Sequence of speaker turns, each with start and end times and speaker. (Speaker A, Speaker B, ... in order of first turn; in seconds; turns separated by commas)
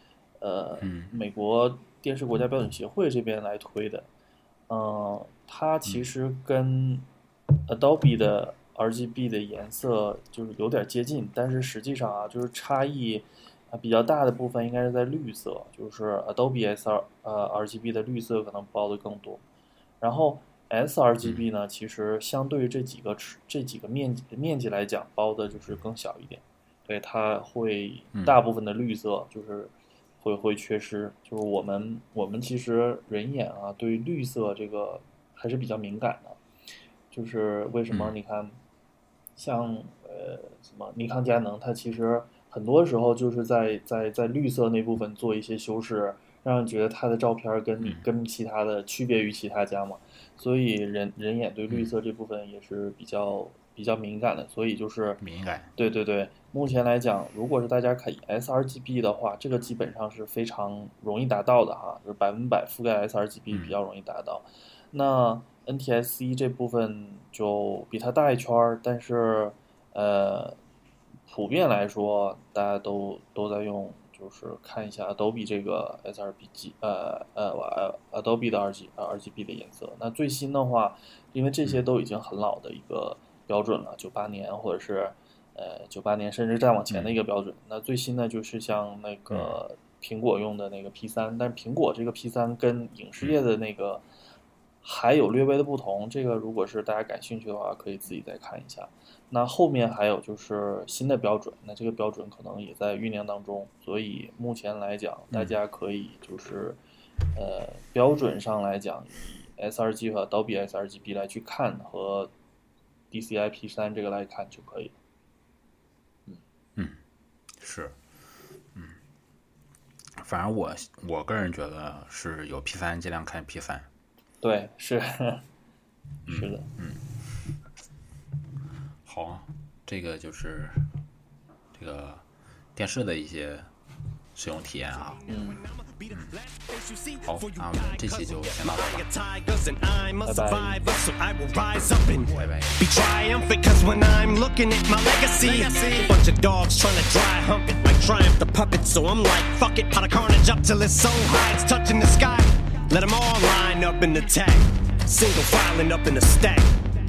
Speaker A: 0.4-4.1, Speaker B: 0.8-1.1, Speaker A: 4.7-7.1, Speaker A: 7.7-19.4, Speaker A: 20.0-36.4, Speaker B: 28.1-28.4, Speaker A: 37.1-38.6, Speaker B: 37.9-38.1, Speaker A: 39.4-55.2, Speaker B: 47.8-48.0, Speaker B: 55.2-55.7, Speaker A: 55.8-70.6, Speaker B: 63.5-63.8, Speaker A: 71.3-94.0, Speaker B: 89.3-89.6, Speaker A: 94.8-106.8, Speaker A: 107.3-112.3, Speaker A: 113.1-114.9, Speaker B: 117.6-118.0, Speaker B: 120.2-123.9, Speaker A: 124.4-125.4, Speaker B: 126.2-127.0, Speaker A: 126.3-126.7, Speaker B: 129.0-130.9, Speaker B: 131.7-132.2, Speaker B: 132.8-133.7, Speaker B: 134.3-135.2, Speaker C: 135.1-156.7, Speaker A: 135.3-135.6, Speaker B: 136.1-136.3, Speaker B: 137.2-139.1, Speaker A: 140.2-140.8, Speaker B: 142.3-142.7